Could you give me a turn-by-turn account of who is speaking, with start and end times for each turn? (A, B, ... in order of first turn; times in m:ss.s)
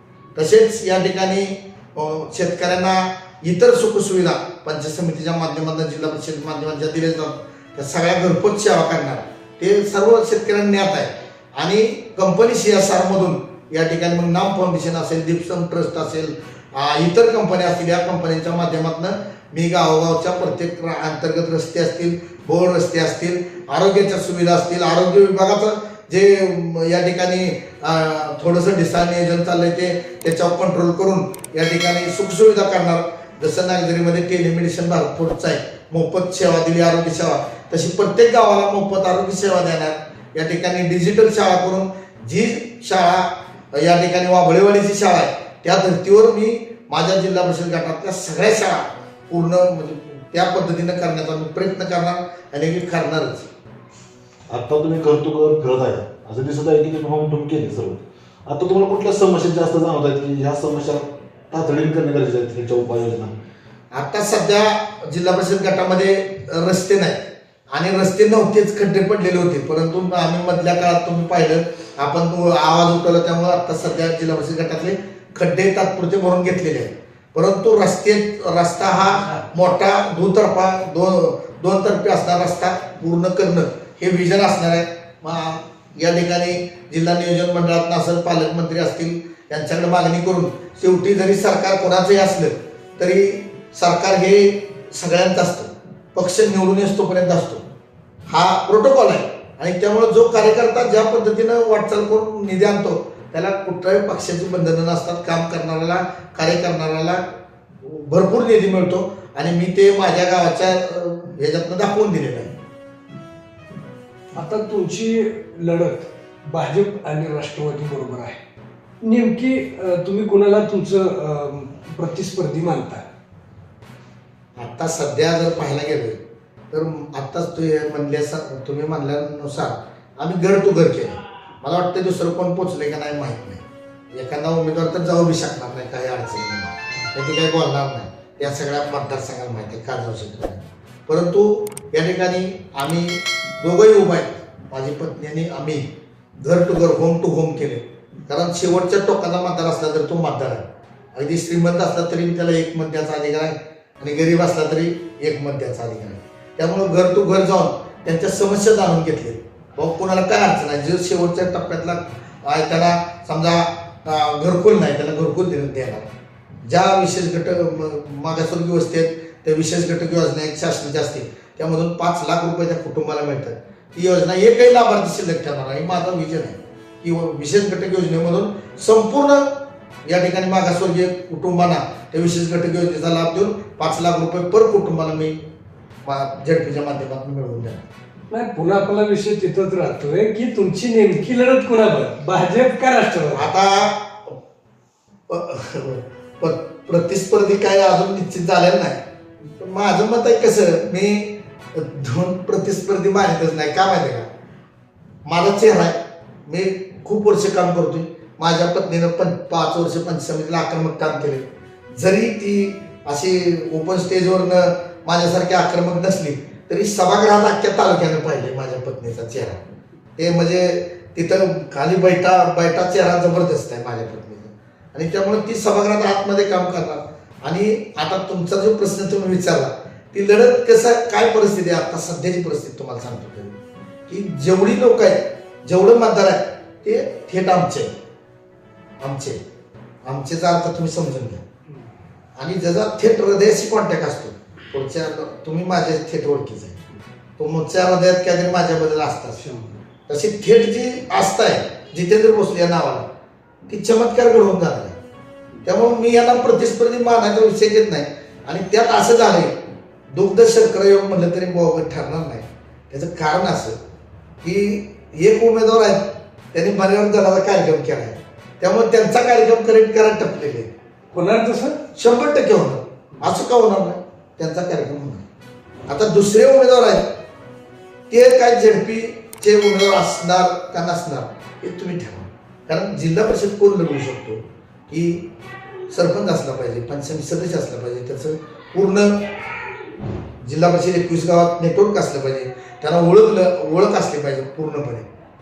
0:00.4-0:53.5 A
0:54.5-1:03.3 B
1:03.9-1:37.6 A
1:38.3-1:47.2 A
1:47.8-1:52.5 A
1:54.4-1:58.4 C
1:59.0-2:03.0 C
2:04.6-2:06.2 A
2:06.7-2:25.9 A
2:26.4-2:46.1 A
2:46.7-2:59.5 A
3:00.1-3:05.4 A
3:06.0-3:07.9 A
3:08.3-3:13.5 C
3:13.3-3:14.4 A
3:15.3-3:24.3 A
3:25.2-3:39.6 A
3:40.2-3:53.6 A
3:54.1-3:57.9 A
3:59.0-3:59.4 A
4:00.0-4:01.4 A
4:02.4-4:06.8 A
4:07.4-4:09.4 A
4:09.4-4:09.8 C
4:10.1-4:13.1 A
4:13.7-4:15.0 A
4:15.6-4:19.6 A
4:20.1-4:23.8 A
4:24.4-4:30.7 A
4:31.1-4:31.8 C
4:32.0-4:35.2 A
4:35.9-4:37.1 A
4:38.1-4:45.3 A
4:45.9-4:49.2 A
4:50.4-4:55.1 A